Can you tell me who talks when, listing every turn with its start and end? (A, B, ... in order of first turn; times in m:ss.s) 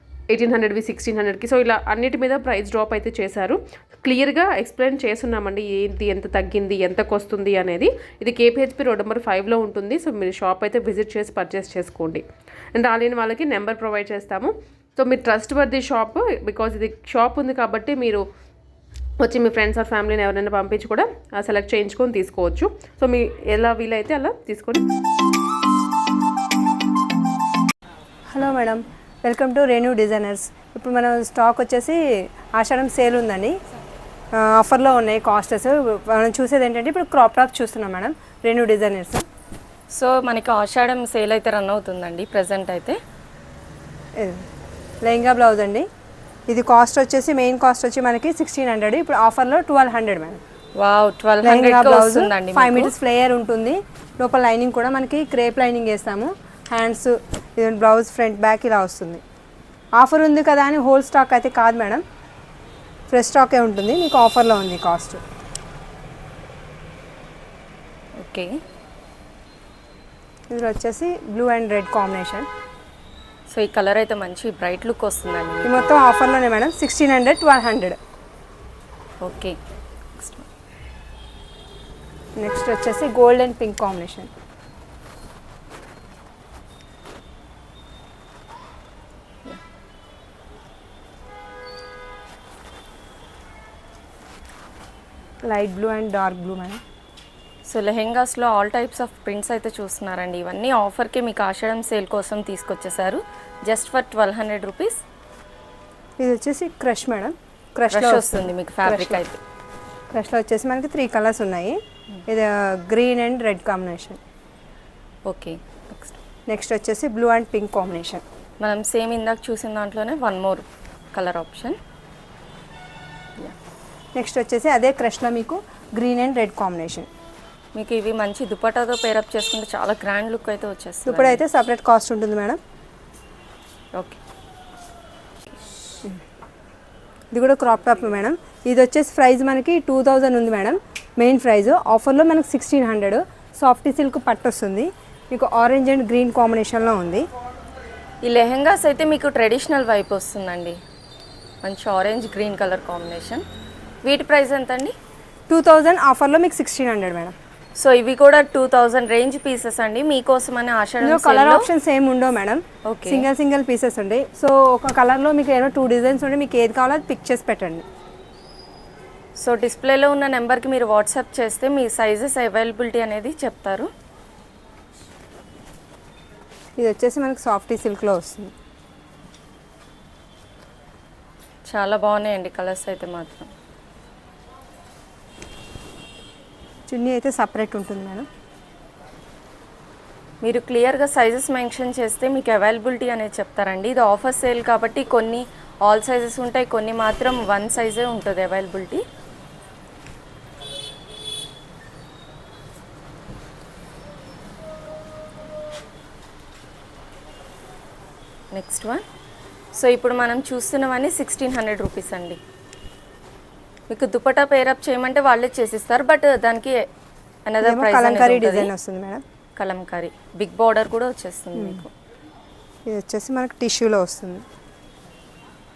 0:00.3-0:18.2 A
0:19.2-0:24.9 A
0:28.3-0:33.6 B
0:34.3-0:39.2 B
0:39.9-0:43.0 C
0:44.2-0:44.4 B
0:45.0-0:45.9 B
0:46.5-0:50.4 B
0:50.8-0:52.9 C
0:51.4-0:59.2 B
1:00.0-1:02.0 B
1:03.1-1:05.2 B
1:08.2-1:08.6 C
1:10.5-1:12.5 B
1:13.5-1:15.9 C
1:15.6-1:18.0 B
1:19.2-1:19.6 C
1:20.2-1:20.4 C
1:22.4-1:24.3 B
1:35.4-1:36.8 B
1:37.7-1:45.0 C
1:46.2-1:49.2 B
1:47.9-1:49.4 C
1:50.1-1:54.2 B
1:55.3-1:56.2 C
1:56.5-1:58.2 B
1:58.6-2:01.8 C
2:04.1-2:07.1 B
2:07.7-2:11.4 C
2:11.1-2:12.6 B
2:17.3-2:27.3 B
2:28.2-2:30.8 C
2:31.6-2:33.4 C
2:34.0-2:35.0 C
2:35.5-2:37.3 B
2:37.8-2:41.7 C
2:41.0-2:47.8 B
2:42.9-2:43.3 C
2:49.4-2:53.9 C
2:56.8-2:58.5 B
3:01.7-3:03.5 C
3:06.9-3:08.2 B
3:10.4-3:19.0 C
3:28.5-3:29.0 C
3:29.7-3:32.4 C
3:33.9-3:36.8 C
3:37.5-3:38.7 C
3:37.6-3:39.2 B
3:39.6-3:41.9 C
3:41.5-3:41.8 B
3:42.9-3:44.4 B